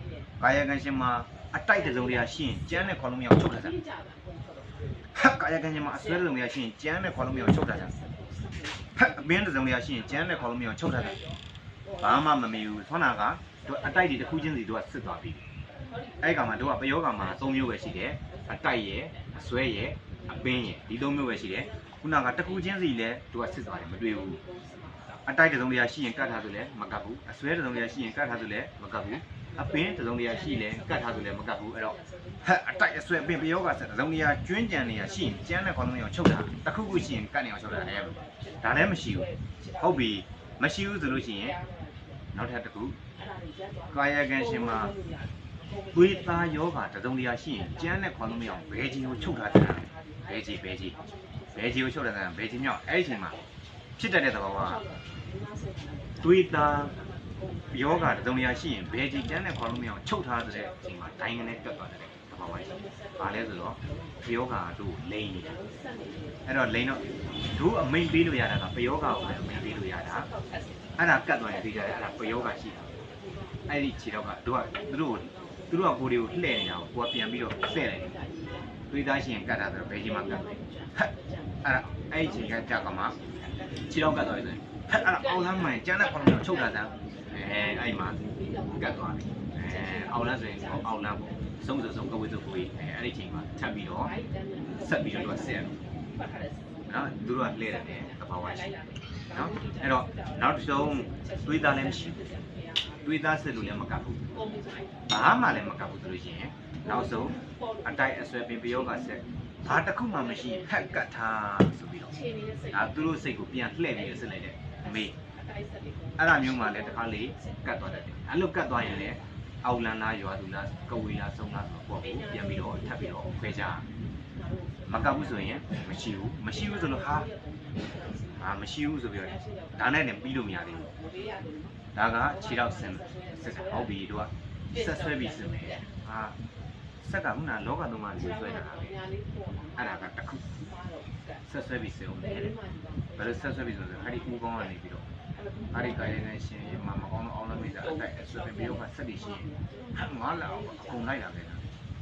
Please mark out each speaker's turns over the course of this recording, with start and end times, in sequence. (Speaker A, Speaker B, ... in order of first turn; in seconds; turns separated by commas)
Speaker A: 0.4-3.8, Speaker B: 4.1-4.6, Speaker A: 5.1-7.9, Speaker A: 8.9-11.2, Speaker A: 12.0-15.4, Speaker A: 16.2-24.4, Speaker A: 25.2-41.6, Speaker A: 42.3-43.0, Speaker A: 43.9-45.0, Speaker A: 45.9-51.0, Speaker A: 51.5-53.4, Speaker A: 54.0-54.8, Speaker B: 55.4-55.9, Speaker A: 56.2-57.0, Speaker A: 57.7-65.6, Speaker A: 66.5-70.3, Speaker A: 71.0-72.9, Speaker A: 73.7-78.1, Speaker A: 78.9-81.0, Speaker A: 81.6-83.1, Speaker A: 83.8-88.2, Speaker A: 88.7-94.1, Speaker A: 94.7-95.7, Speaker A: 96.9-98.7, Speaker A: 99.3-102.2, Speaker A: 103.0-104.2, Speaker A: 105.1-112.1, Speaker A: 112.7-115.2, Speaker A: 116.2-123.8, Speaker A: 124.9-127.3, Speaker B: 127.2-128.0, Speaker A: 128.4-130.9, Speaker B: 131.0-131.6, Speaker A: 131.9-136.4, Speaker A: 137.0-138.9, Speaker A: 139.8-140.4, Speaker A: 141.4-142.5, Speaker A: 143.2-145.0, Speaker A: 145.7-151.6